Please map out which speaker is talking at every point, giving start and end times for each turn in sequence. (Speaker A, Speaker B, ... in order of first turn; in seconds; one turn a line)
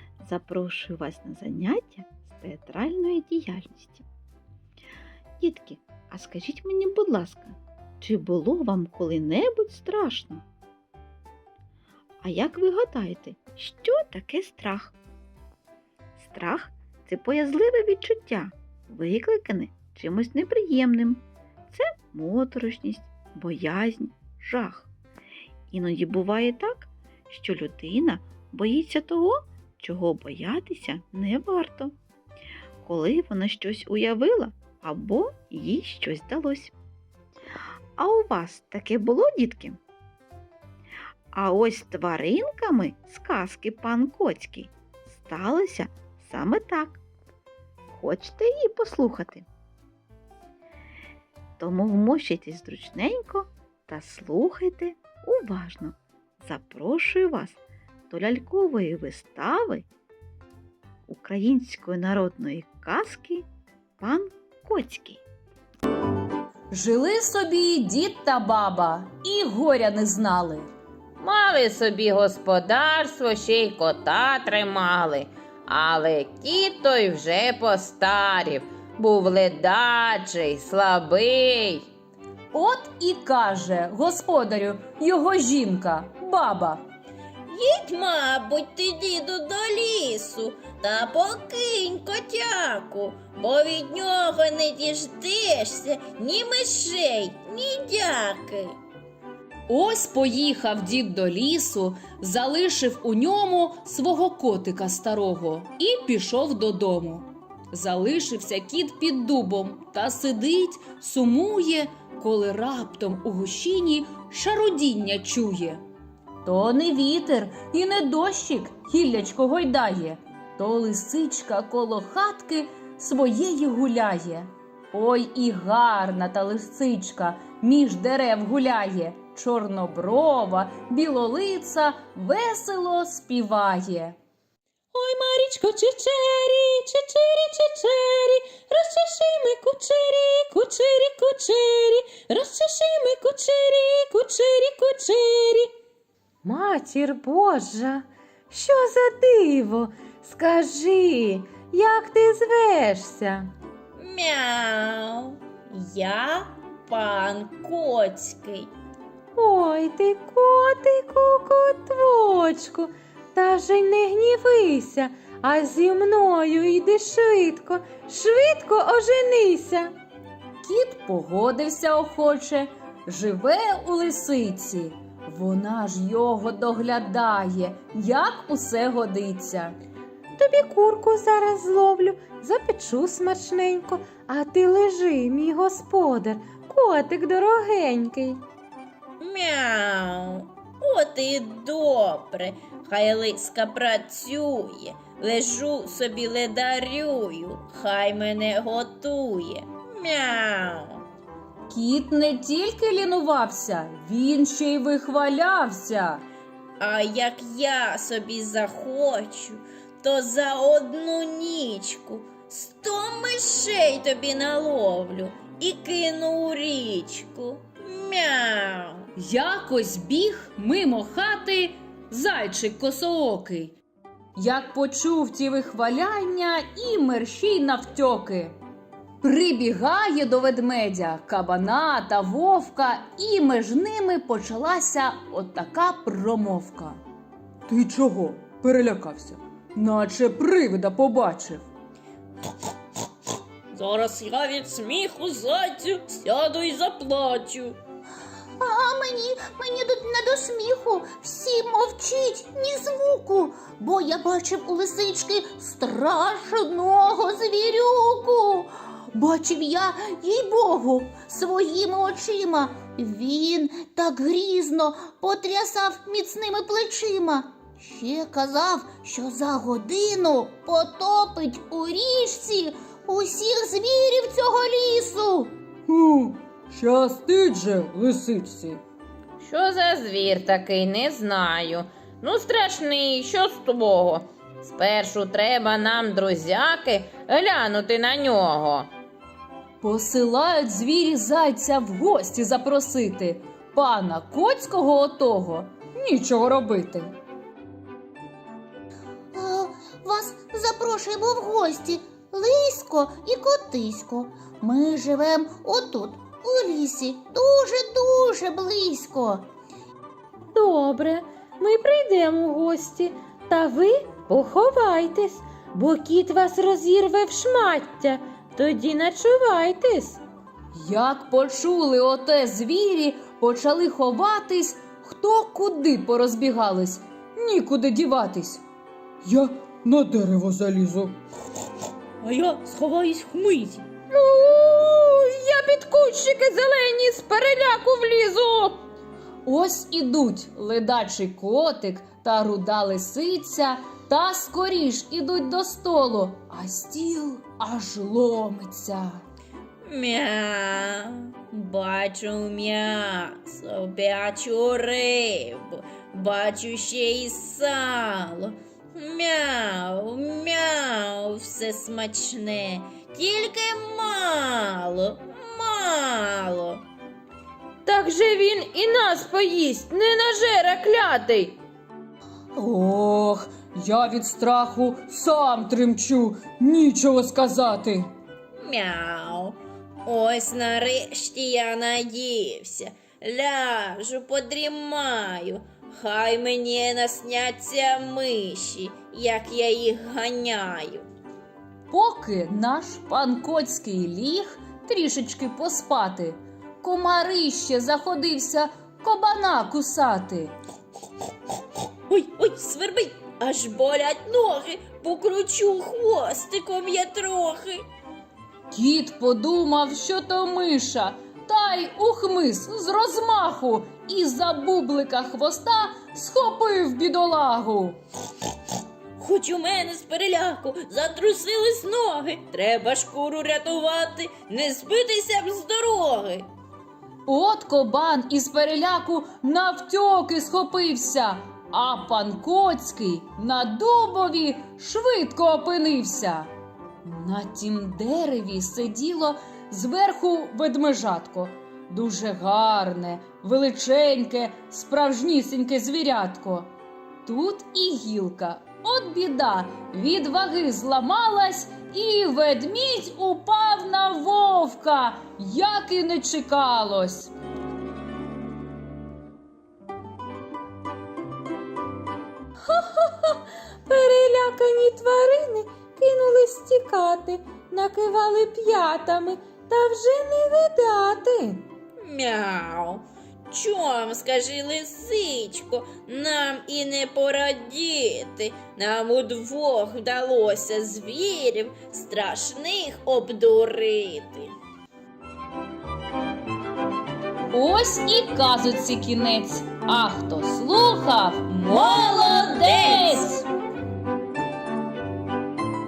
Speaker A: 0.2-4.0
Speaker A: 5.4-10.4
Speaker A: 12.2-14.9
Speaker A: 16.2-24.9
Speaker A: 25.7-31.9
Speaker A: 32.8-36.7
Speaker A: 38.0-39.8
Speaker A: 41.3-47.0
Speaker A: 47.9-49.5
Speaker A: 51.6-59.9
Speaker A: 61.1-63.5
Speaker A: 64.0-65.2
Speaker B: 66.7-70.7
Speaker C: 71.2-81.9
Speaker B: 82.5-86.8
Speaker D: 87.5-98.8
Speaker B: 99.7-115.8
Speaker B: 116.4-134.2
Speaker B: 134.9-145.7
Speaker E: 142.7-143.2
Speaker E: 146.4-153.5
Speaker D: 153.9-158.7
Speaker E: 159.4-169.8
Speaker B: 167.3-168.2
Speaker B: 170.6-179.8
Speaker E: 180.4-188.4
Speaker D: 189.2-201.0
Speaker B: 201.7-206.2
Speaker D: 206.8-219.1
Speaker B: 219.2-223.7
Speaker B: 224.3-228.6
Speaker B: 229.2-237.0
Speaker B: 237.7-241.6
Speaker D: 243.7-247.8
Speaker F: 248.6-275.5
Speaker B: 275.9-278.8
Speaker C: 279.4-288.9
Speaker B: 289.8-297.1
Speaker F: 299.3-309.5
Speaker E: 310.5-320.2
Speaker B: 320.7-328.6
Speaker B: 329.2-331.1
Speaker D: 332.2-333.9
Speaker B: 334.1-338.8
Speaker B: 339.4-349.2
Speaker D: 349.8-366.8
Speaker C: 367.9-371.6
Speaker B: 372.6-378.1
Speaker D: 378.5-391.1
Speaker B: 391.9-400.5
Speaker D: 402.1-407.9
Speaker B: 408.7-418.0
Speaker D: 419.2-426.5
Speaker B: 427.2-436.5
Speaker B: 437.0-446.7
Speaker B: 447.2-457.3
Speaker E: 463.9-471.6
Speaker B: 463.9-464.8
Speaker D: 472.0-484.5
Speaker B: 487.5-493.4
Speaker D: 491.7-493.3